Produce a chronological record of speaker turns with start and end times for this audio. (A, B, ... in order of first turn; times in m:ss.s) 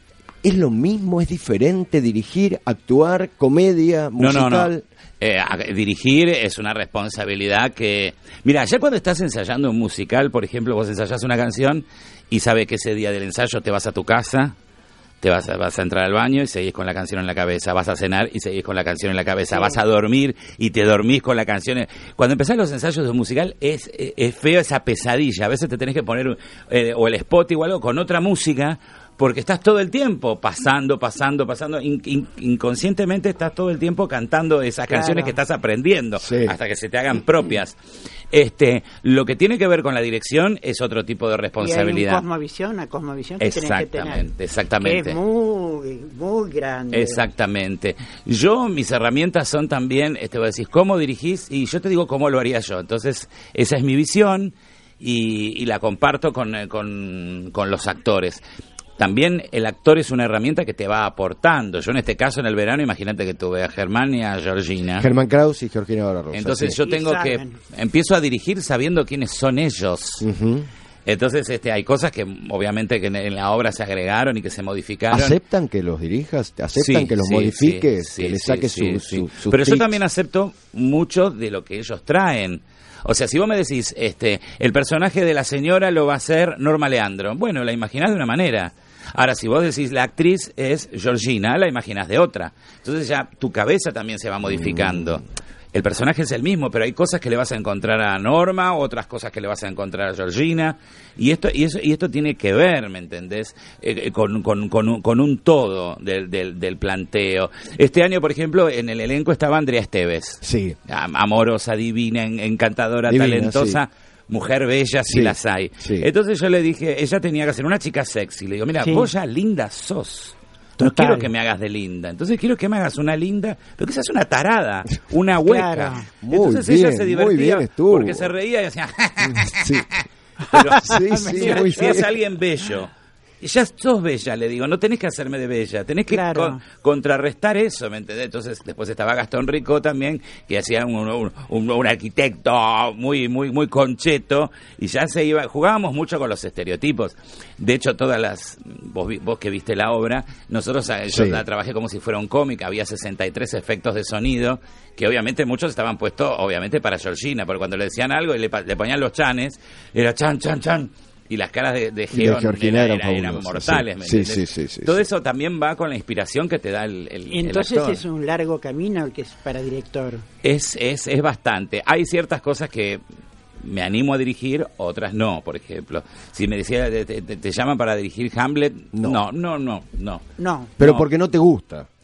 0:00.4-0:04.8 A
0:04.2-0:14.6 B
0:15.2-0:37.8 B
0:19.5-0:19.8 C
0:34.9-0:35.3 C
0:36.2-0:36.6 A
0:38.3-0:42.2 B
0:41.6-0:44.3 C
0:43.4-0:45.2 B
0:44.8-0:47.2 C
0:46.9-0:58.4 B
0:59.0-1:05.1 B
1:05.0-1:06.8 A
1:06.3-1:10.2 B
1:06.8-1:07.6 C
1:10.2-1:10.7 A
1:11.0-1:15.4 B
1:15.1-1:20.0 A
1:16.8-2:48.0 B
1:34.5-1:35.2 A
1:50.4-1:50.8 A
1:53.1-1:53.8 A
1:55.1-1:56.1 A
1:58.8-1:59.1 C
2:00.8-2:01.3 C
2:05.4-2:06.1 C
2:06.2-2:08.3 A
2:09.2-2:09.9 A
2:10.5-2:12.0 C
2:10.8-2:12.1 A
2:16.1-2:16.6 C
2:31.1-2:31.4 A
2:42.1-2:45.0 A
2:47.3-2:50.2 C
2:50.4-2:53.0 B
2:53.6-3:00.3 B
2:58.9-2:59.2 A
3:00.4-3:00.7 C
3:00.8-3:01.1 B
3:00.8-3:01.9 A